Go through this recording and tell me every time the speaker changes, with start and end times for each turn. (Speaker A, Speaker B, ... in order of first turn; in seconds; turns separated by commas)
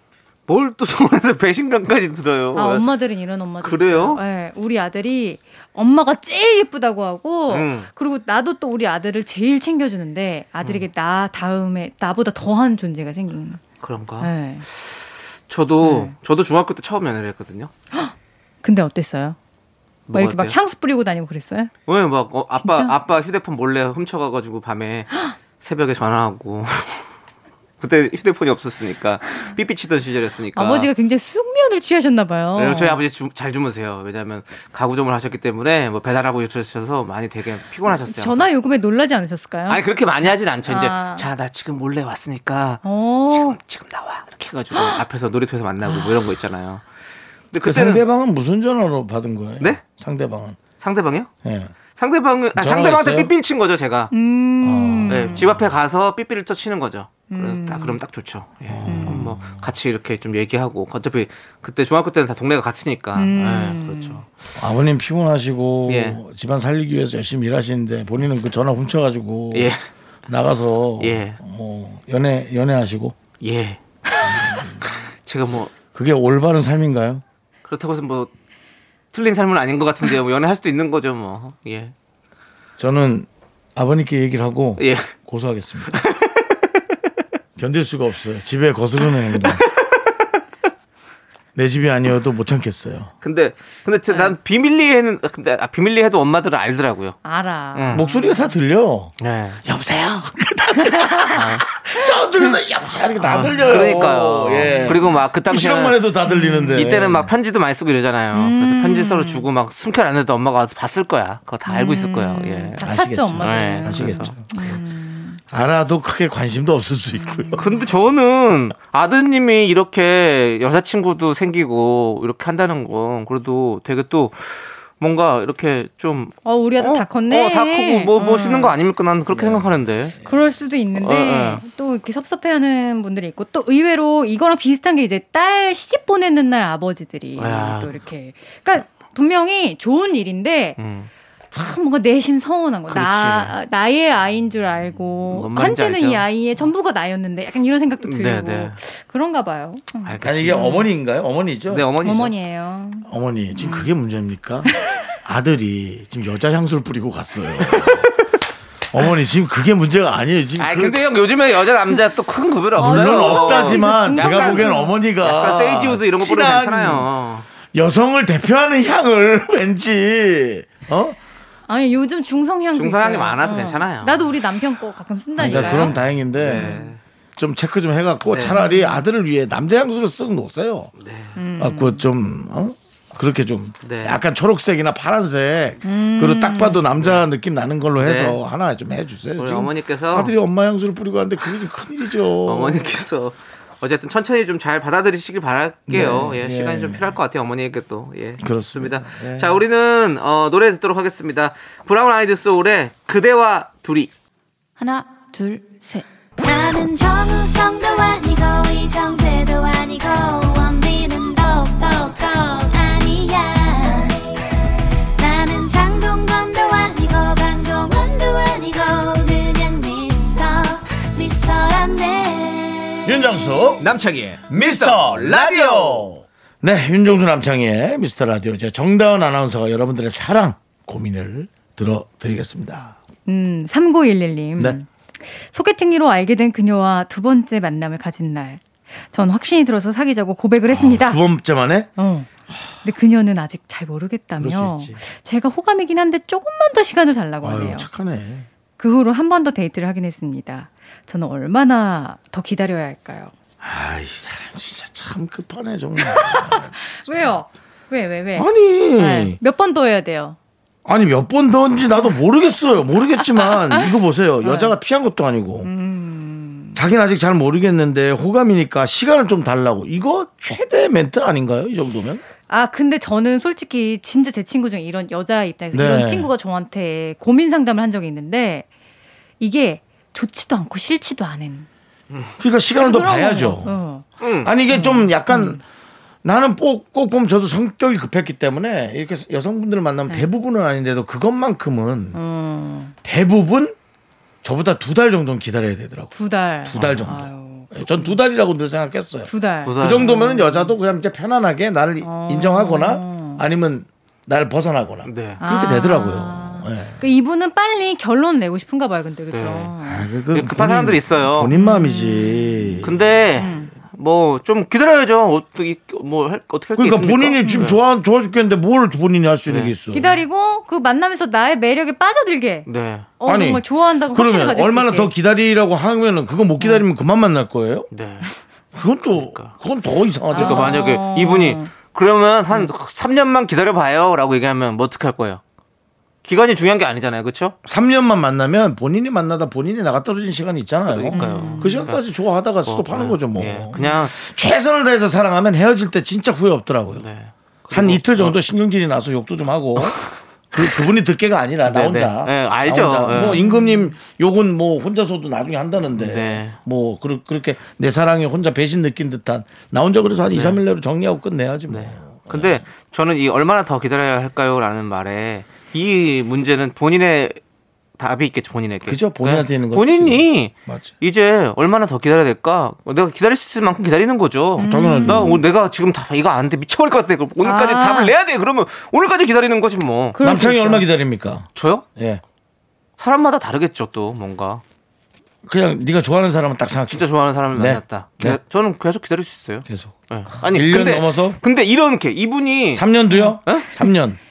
Speaker A: 0.5-2.9, Speaker B: 2.5-13.6, Speaker A: 3.6-4.2, Speaker A: 7.5-7.9, Speaker A: 13.8-17.7, Speaker B: 14.2-14.7, Speaker B: 15.8-16.1, Speaker B: 17.9-19.4, Speaker A: 20.1-20.6, Speaker B: 20.1-21.7, Speaker A: 21.9-27.1, Speaker B: 22.6-22.9, Speaker A: 27.8-30.9, Speaker B: 30.5-33.0, Speaker A: 32.5-38.5, Speaker B: 37.9-39.8, Speaker A: 39.7-46.8, Speaker B: 40.6-41.3, Speaker B: 42.8-43.6, Speaker B: 44.7-45.0, Speaker B: 45.9-46.1, Speaker A: 47.5-48.0, Speaker C: 47.6-50.6, Speaker A: 50.8-51.3, Speaker C: 51.4-51.7, Speaker A: 51.9-54.1, Speaker C: 52.5-53.3, Speaker B: 54.1-55.5, Speaker C: 54.6-55.6, Speaker A: 55.1-64.3, Speaker B: 57.3-58.0, Speaker C: 58.6-59.7, Speaker B: 58.9-59.3, Speaker B: 63.1-64.2, Speaker C: 64.6-69.8, Speaker A: 65.9-66.2, Speaker A: 69.5-69.8, Speaker C: 70.3-73.2, Speaker A: 71.0-71.4, Speaker A: 73.4-73.8, Speaker C: 74.2-74.8, Speaker A: 74.8-75.7, Speaker C: 75.9-77.2, Speaker A: 77.6-78.3, Speaker A: 79.1-81.9, Speaker C: 82.8-86.0, Speaker A: 84.8-85.1, Speaker A: 85.9-86.6, Speaker C: 87.6-89.6, Speaker A: 89.4-90.0, Speaker C: 91.5-93.1, Speaker A: 93.2-97.2, Speaker B: 94.1-94.3, Speaker B: 97.2-98.6, Speaker A: 97.7-98.1, Speaker C: 97.9-107.3, Speaker A: 99.2-99.6, Speaker A: 101.3-101.6, Speaker A: 103.2-106.0, Speaker B: 103.3-103.6, Speaker B: 104.6-105.2, Speaker B: 106.2-106.8, Speaker A: 106.7-112.8, Speaker B: 108.3-109.5, Speaker B: 111.7-115.4, Speaker C: 112.8-114.8, Speaker A: 113.4-114.4, Speaker C: 115.5-117.6, Speaker B: 117.1-117.8, Speaker A: 117.6-130.2, Speaker B: 126.4-128.8, Speaker C: 129.3-130.3, Speaker B: 130.2-140.8, Speaker A: 130.9-131.6, Speaker A: 137.4-138.0, Speaker A: 140.8-141.1, Speaker B: 141.5-150.9, Speaker A: 142.9-143.6, Speaker A: 145.3-146.3, Speaker A: 148.0-148.8, Speaker A: 150.0-150.8, Speaker C: 150.2-151.9, Speaker A: 151.7-152.3, Speaker B: 152.0-153.9, Speaker C: 153.1-158.1, Speaker A: 157.6-158.2, Speaker C: 158.9-161.0, Speaker A: 160.6-167.4, Speaker B: 162.8-164.9, Speaker C: 162.8-167.1, Speaker C: 167.7-171.2, Speaker B: 171.7-176.9, Speaker A: 172.7-174.3, Speaker C: 175.4-176.7, Speaker A: 175.4-177.0, Speaker C: 177.4-180.9, Speaker A: 178.3-178.6, Speaker B: 178.5-179.0, Speaker A: 181.0-181.4, Speaker B: 181.4-182.1, Speaker C: 181.6-192.9, Speaker A: 183.8-184.2, Speaker B: 185.8-186.8, Speaker A: 188.0-188.4, Speaker A: 189.4-190.3, Speaker A: 192.4-204.1, Speaker C: 195.9-197.2, Speaker C: 198.4-199.6, Speaker D: 204.8-214.3, Speaker D: 215.2-223.3, Speaker C: 223.1-223.9, Speaker A: 223.8-226.2, Speaker C: 224.5-232.9, Speaker B: 233.3-241.2, Speaker C: 240.7-241.9, Speaker B: 242.0-242.3, Speaker B: 242.8-247.9, Speaker C: 244.4-245.0, Speaker C: 247.4-248.5, Speaker B: 248.8-253.3, Speaker C: 253.6-257.4, Speaker B: 256.0-260.4, Speaker C: 258.4-259.4, Speaker C: 260.9-265.7, Speaker B: 263.4-263.9, Speaker B: 264.4-264.7, Speaker B: 265.6-266.8, Speaker C: 266.8-272.2, Speaker B: 272.5-278.7, Speaker C: 275.7-276.3, Speaker B: 279.4-281.7, Speaker C: 282.4-283.8, Speaker B: 282.8-284.1, Speaker A: 284.2-284.5, Speaker C: 284.4-285.6, Speaker B: 284.7-285.6, Speaker C: 286.2-292.2, Speaker B: 292.1-292.9, Speaker C: 293.1-293.8, Speaker C: 294.4-296.1, Speaker B: 296.1-298.2, Speaker C: 296.6-307.0, Speaker B: 299.3-300.8, Speaker A: 299.6-300.2, Speaker B: 302.0-303.4, Speaker A: 305.0-305.4, Speaker B: 305.4-310.1, Speaker A: 309.3-309.7, Speaker C: 309.8-313.2, Speaker A: 310.3-311.5, Speaker B: 311.5-312.8, Speaker A: 312.8-317.8, Speaker B: 313.4-313.7, Speaker C: 316.8-320.1, Speaker B: 317.4-317.7, Speaker A: 319.5-319.7, Speaker B: 319.9-322.7, Speaker A: 322.7-323.1, Speaker B: 323.2-325.1, Speaker C: 323.2-327.9, Speaker A: 327.9-328.3, Speaker C: 328.7-330.8, Speaker A: 329.1-329.5, Speaker B: 330.3-331.7, Speaker A: 330.3-335.4, Speaker A: 336.2-337.6, Speaker C: 337.6-347.1, Speaker A: 340.9-342.0, Speaker B: 341.1-341.8, Speaker A: 342.6-344.1, Speaker A: 346.9-348.4, Speaker C: 347.7-362.6, Speaker A: 349.8-350.0, Speaker A: 351.6-353.4, Speaker B: 353.1-353.9, Speaker A: 356.0-356.6, Speaker A: 360.3-360.6, Speaker A: 361.7-367.4, Speaker A: 368.0-380.2, Speaker C: 368.9-370.9, Speaker B: 374.6-375.4, Speaker C: 374.6-375.4, Speaker B: 377.4-378.1, Speaker B: 380.1-380.9, Speaker C: 380.2-382.2, Speaker A: 381.5-381.9, Speaker A: 383.0-384.6, Speaker C: 385.4-388.4, Speaker A: 386.9-392.9, Speaker C: 389.6-391.4, Speaker C: 392.7-394.2, Speaker B: 393.1-393.4, Speaker A: 393.4-393.9